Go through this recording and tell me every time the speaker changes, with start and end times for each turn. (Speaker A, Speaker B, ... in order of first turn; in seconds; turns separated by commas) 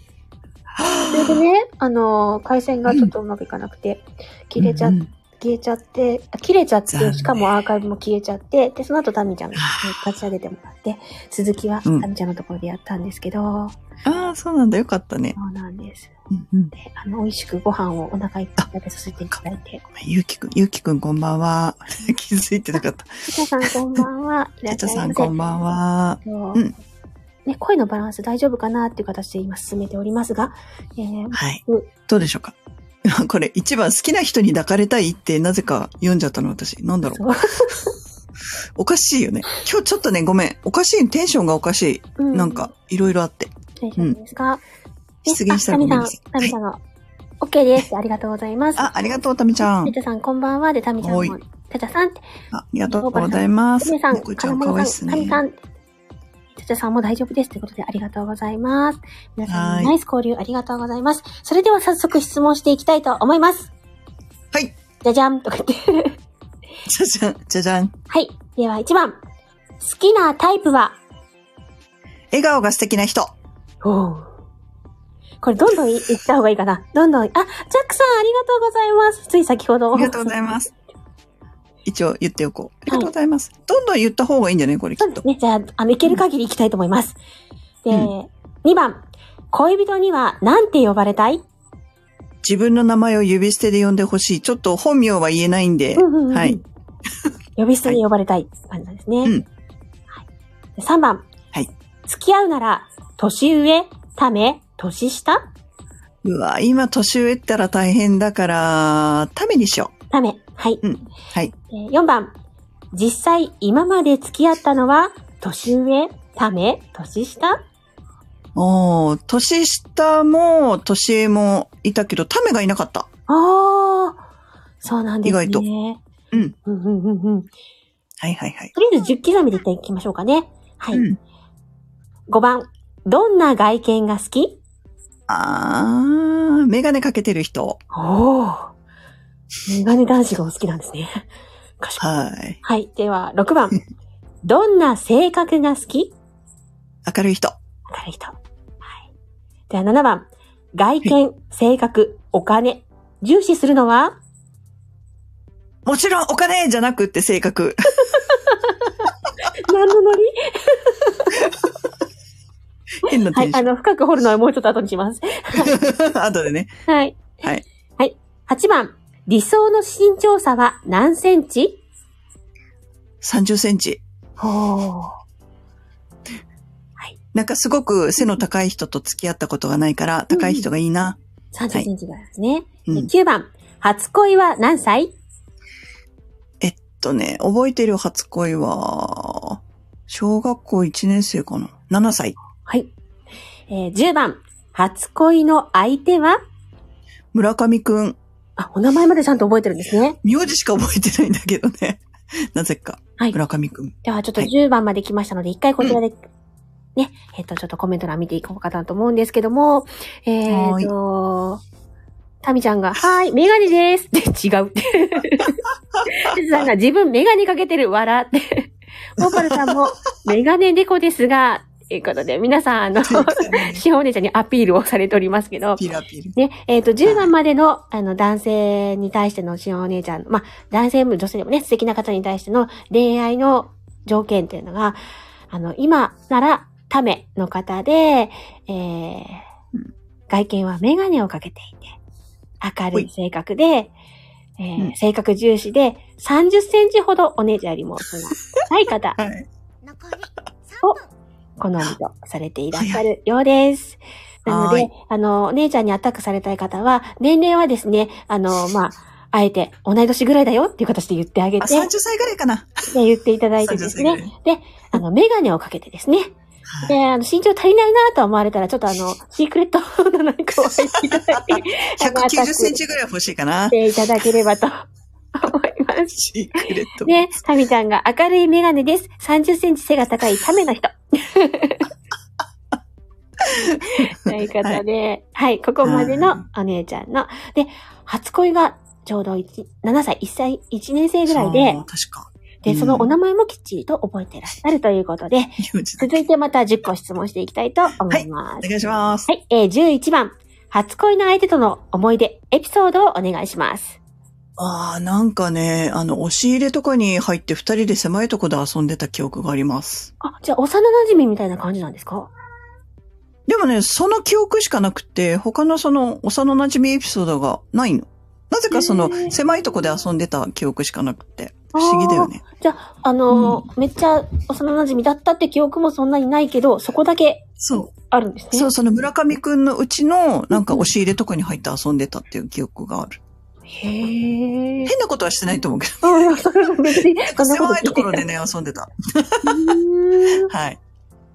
Speaker A: 0.7-1.4, Speaker B: 1.1-13.8, Speaker A: 4.6-5.1, Speaker A: 6.9-7.4, Speaker A: 9.6-10.0, Speaker A: 14.0-15.4, Speaker B: 15.4-16.1, Speaker A: 16.3-16.7, Speaker B: 16.8-19.8, Speaker A: 19.3-24.0, Speaker B: 23.3-25.3, Speaker A: 24.7-26.7, Speaker B: 26.2-26.6, Speaker B: 27.5-31.9, Speaker A: 31.3-37.8, Speaker B: 37.1-37.9, Speaker A: 38.8-44.2, Speaker B: 42.2-42.7, Speaker B: 43.8-44.6, Speaker A: 45.3-46.5, Speaker B: 45.3-46.8, Speaker B: 47.4-48.9, Speaker A: 48.8-49.9, Speaker B: 49.6-52.2, Speaker A: 51.0-51.4, Speaker A: 52.5-55.4, Speaker B: 52.9-55.6, Speaker B: 56.5-63.7, Speaker A: 59.5-60.0, Speaker B: 65.0-66.2, Speaker A: 66.9-67.9, Speaker B: 68.1-69.2, Speaker B: 69.8-71.0, Speaker A: 72.3-73.3, Speaker B: 73.8-74.3, Speaker B: 75.4-80.3, Speaker A: 79.9-80.7, Speaker A: 81.8-85.2, Speaker B: 85.0-87.2, Speaker B: 87.9-91.4, Speaker A: 92.4-96.6, Speaker B: 96.0-96.6, Speaker B: 97.6-99.4, Speaker B: 100.8-101.2, Speaker B: 102.1-105.4, Speaker A: 106.2-109.9, Speaker B: 110.1-110.8, Speaker A: 110.8-111.5, Speaker B: 111.7-112.3, Speaker B: 112.9-117.6, Speaker A: 118.5-123.1, Speaker B: 123.3-124.2, Speaker B: 124.8-126.0, Speaker A: 125.2-125.7, Speaker B: 126.7-127.5, Speaker A: 128.2-128.7, Speaker B: 128.8-131.1, Speaker A: 130.9-131.2, Speaker B: 132.3-134.6, Speaker A: 135.3-137.8, Speaker B: 137.9-138.7, Speaker B: 139.7-141.3, Speaker A: 142.0-142.6, Speaker B: 142.6-143.8, Speaker B: 144.4-146.2, Speaker A: 147.1-147.6, Speaker B: 147.9-148.4, Speaker B: 149.7-154.2, Speaker A: 155.9-158.3, Speaker B: 158.1-158.9, Speaker B: 159.5-161.6, Speaker A: 163.0-163.7, Speaker B: 163.1-165.8, Speaker A: 165.6-166.7, Speaker B: 166.9-167.4, Speaker B: 168.0-171.8, Speaker A: 173.2-174.0, Speaker B: 174.4-175.2, Speaker A: 177.3-181.2, Speaker B: 180.3-180.7, Speaker B: 181.5-185.1, Speaker A: 186.6-192.4, Speaker B: 192.7-192.9, Speaker B: 193.7-196.4, Speaker A: 197.3-198.2, Speaker B: 198.6-200.2, Speaker A: 200.2-204.5, Speaker B: 204.0-206.2, Speaker B: 207.0-211.6, Speaker A: 210.5-210.9, Speaker B: 212.4-225.8, Speaker A: 219.2-219.8, Speaker A: 223.1-223.8, Speaker A: 225.8-226.4, Speaker B: 226.3-235.0, Speaker A: 227.1-227.3, Speaker B: 235.5-239.4, Speaker B: 240.3-241.9, Speaker B: 242.6-243.9, Speaker B: 244.6-249.2, Speaker A: 249.2-249.5, Speaker B: 251.6-261.9, Speaker A: 252.7-253.1, Speaker A: 254.5-254.9, Speaker A: 261.6-262.9, Speaker B: 262.9-266.3, Speaker A: 263.6-264.3, Speaker A: 266.7-267.0, Speaker B: 266.9-272.8, Speaker A: 270.9-273.8, Speaker B: 273.7-281.9, Speaker A: 276.1-277.4, Speaker A: 283.4-284.8, Speaker B: 283.9-291.8, Speaker A: 285.8-286.4, Speaker A: 291.3-293.1, Speaker B: 292.6-298.7, Speaker A: 295.6-296.2, Speaker A: 298.1-299.3, Speaker B: 299.3-304.0, Speaker A: 304.6-310.1, Speaker B: 310.2-312.3, Speaker A: 313.5-322.4, Speaker B: 318.7-319.4, Speaker B: 321.7-327.5, Speaker A: 323.3-323.6, Speaker A: 327.6-327.9, Speaker B: 328.1-328.7, Speaker A: 328.5-333.2, Speaker B: 330.5-330.9, Speaker B: 333.8-334.9, Speaker A: 334.9-336.4, Speaker B: 336.0-338.2, Speaker A: 336.9-339.8, Speaker B: 339.4-340.5, Speaker A: 340.3-340.8